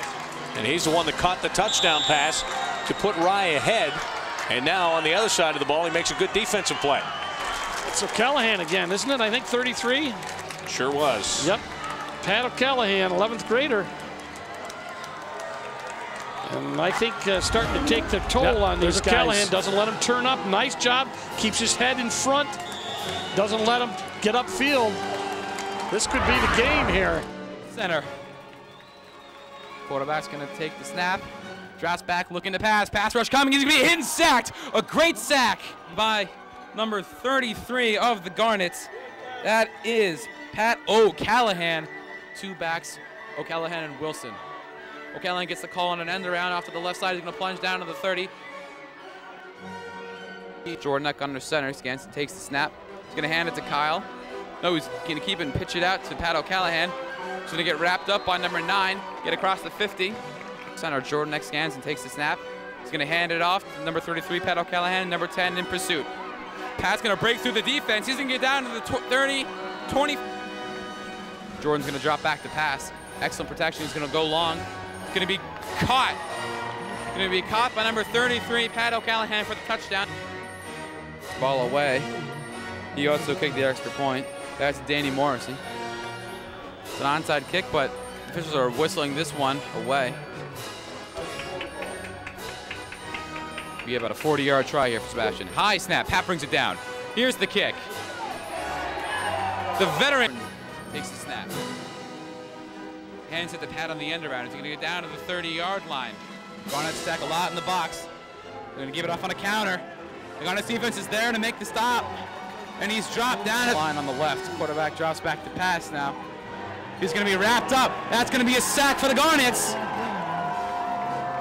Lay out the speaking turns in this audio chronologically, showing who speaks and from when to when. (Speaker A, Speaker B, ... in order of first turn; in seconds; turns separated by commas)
Speaker A: 0.5-7.1, Speaker B: 7.8-10.2, Speaker A: 10.7-11.5, Speaker B: 12.2-13.9, Speaker B: 16.4-22.6, Speaker A: 18.4-19.5, Speaker B: 23.3-25.0, Speaker B: 25.9-27.3, Speaker C: 27.7-28.1, Speaker C: 29.9-38.9, Speaker C: 39.4-44.4, Speaker C: 45.1-48.3, Speaker C: 50.7-54.1, Speaker C: 54.6-57.0, Speaker C: 57.5-60.2, Speaker C: 60.8-66.1, Speaker C: 66.8-70.2, Speaker C: 71.6-76.2, Speaker C: 77.1-80.1, Speaker C: 81.4-82.1, Speaker C: 83.0-85.6, Speaker C: 87.0-90.2, Speaker C: 93.8-97.9, Speaker C: 99.8-101.5, Speaker C: 103.3-108.1, Speaker C: 108.8-109.8, Speaker C: 110.4-112.2, Speaker C: 112.8-116.2, Speaker C: 117.0-119.8